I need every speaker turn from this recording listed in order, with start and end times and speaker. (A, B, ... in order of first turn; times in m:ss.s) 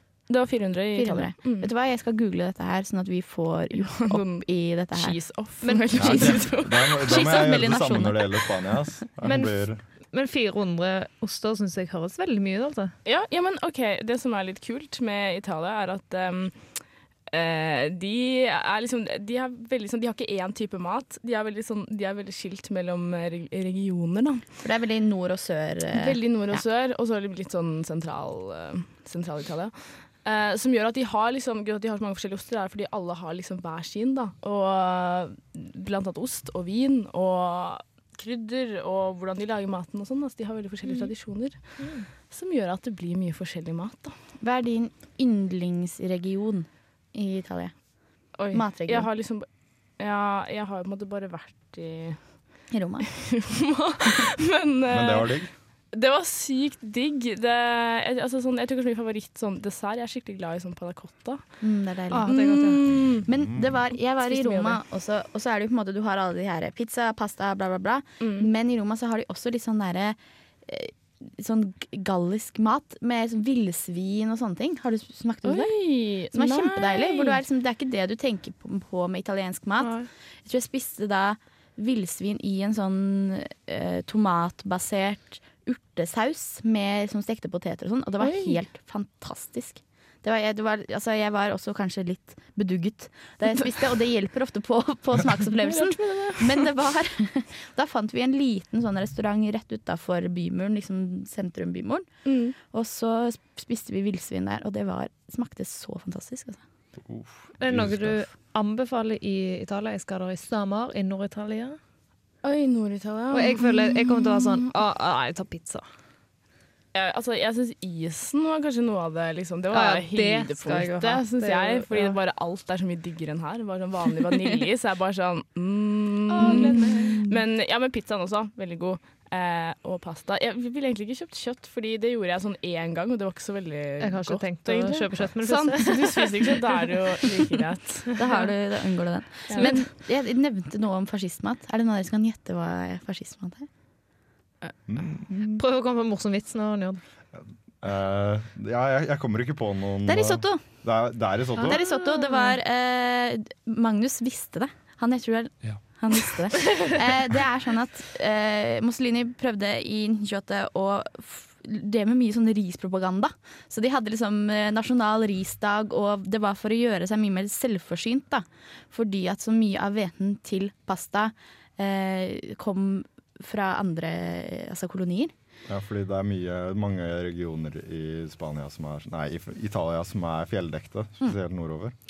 0:00.3-0:01.7 A
0:00.9-0:05.2 B
0:03.7-0:07.3 A
0:05.6-0:06.3 C
0:06.0-0:09.8 D
0:06.0-0:08.5 B
0:09.2-0:12.9 C
0:13.0-0:24.5 A
0:24.6-0:26.6 B
0:25.9-0:44.2 A
0:41.8-0:42.1 C
0:44.4-0:49.1 B
0:48.3-0:52.7 A
0:52.7-0:53.1 B
0:53.3-0:55.4 A
0:54.9-0:55.5 D
0:55.9-1:03.3 A
1:01.6-1:42.1 B
1:02.2-1:03.1 C
1:03.9-1:04.8 A
1:08.2-1:08.5 A
1:15.4-1:17.4 A
1:19.8-1:20.1 A
1:28.2-1:28.6 A
1:35.6-1:36.6 A
1:42.2-1:42.6 A
1:42.6-1:46.6 B
1:47.0-1:48.3 D
1:47.6-1:51.8 C
1:52.4-1:54.7 A
1:53.3-1:55.8 C
1:56.9-2:18.2 A
1:59.7-2:02.2 C
2:06.3-2:07.2 B
2:06.3-2:07.4 C
2:14.0-2:17.5 C
2:18.2-2:23.7 B
2:19.5-2:19.8 A
2:24.9-2:25.2 D
2:25.5-2:27.0 C
2:27.4-2:31.8 D
2:30.0-2:30.6 B
2:31.6-2:32.6 C
2:31.6-2:55.3 B
2:55.7-3:01.9 D